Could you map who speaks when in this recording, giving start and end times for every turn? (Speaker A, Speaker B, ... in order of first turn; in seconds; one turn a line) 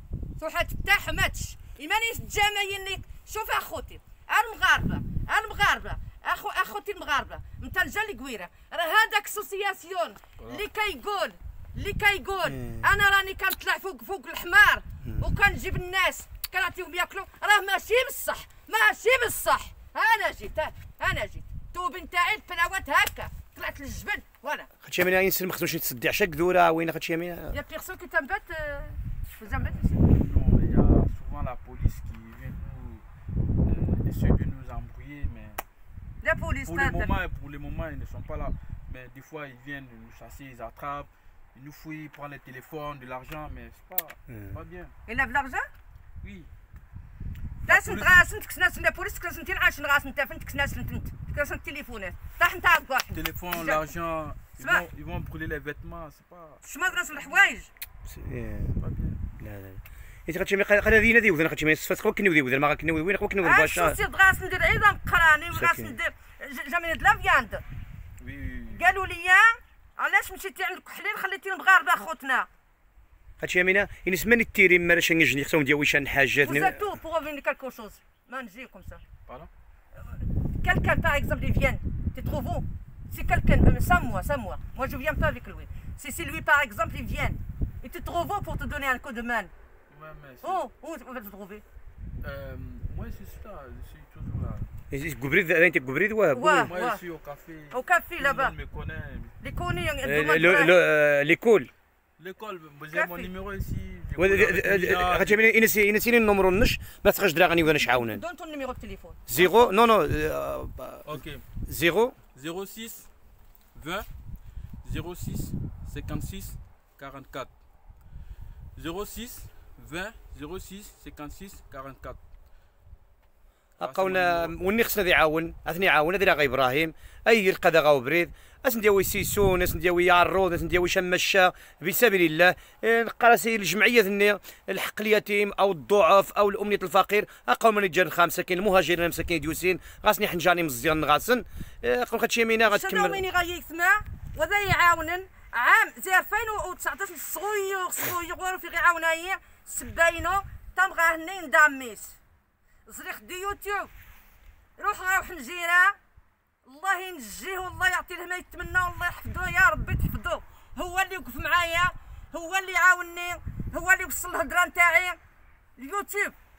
Speaker A: 0.4-24.7
Speaker B: 10.4-10.6
Speaker C: 12.5-12.8
Speaker C: 24.8-27.5
Speaker A: 27.5-29.9
Speaker B: 29.5-33.0
Speaker B: 33.6-35.6
Speaker A: 36.2-37.1
Speaker B: 36.6-44.9
Speaker C: 44.3-44.5
Speaker A: 45.0-45.7
Speaker B: 46.2-46.5
Speaker A: 47.6-53.9
Speaker B: 47.7-48.2
Speaker B: 53.1-57.5
Speaker A: 54.6-54.8
Speaker A: 56.6-57.7
Speaker C: 58.1-58.8
Speaker B: 58.8-59.2
Speaker C: 59.4-64.0
Speaker A: 63.4-67.6
Speaker C: 65.5-66.0
Speaker B: 68.2-68.9
Speaker A: 68.7-72.5
Speaker C: 73.4-76.9
Speaker A: 76.4-79.0
Speaker A: 80.0-89.5
Speaker B: 89.9-90.6
Speaker A: 90.4-91.6
Speaker B: 92.2-94.7
Speaker C: 94.9-96.7
Speaker A: 96.3-97.0
Speaker B: 96.5-99.3
Speaker A: 97.7-98.5
Speaker A: 99.4-100.7
Speaker C: 100.0-101.7
Speaker B: 102.2-105.4
Speaker A: 102.9-103.3
Speaker C: 104.2-108.2
Speaker A: 107.8-109.5
Speaker C: 109.3-112.2
Speaker B: 111.0-111.4
Speaker B: 112.3-113.1
Speaker B: 113.7-114.1
Speaker B: 114.8-117.5
Speaker B: 118.8-122.2
Speaker C: 123.8-143.2
Speaker B: 123.8-124.5
Speaker A: 142.6-152.2
Speaker A: 152.8-153.9
Speaker A: 154.8-156.0
Speaker A: 156.6-165.2
Speaker A: 165.8-166.3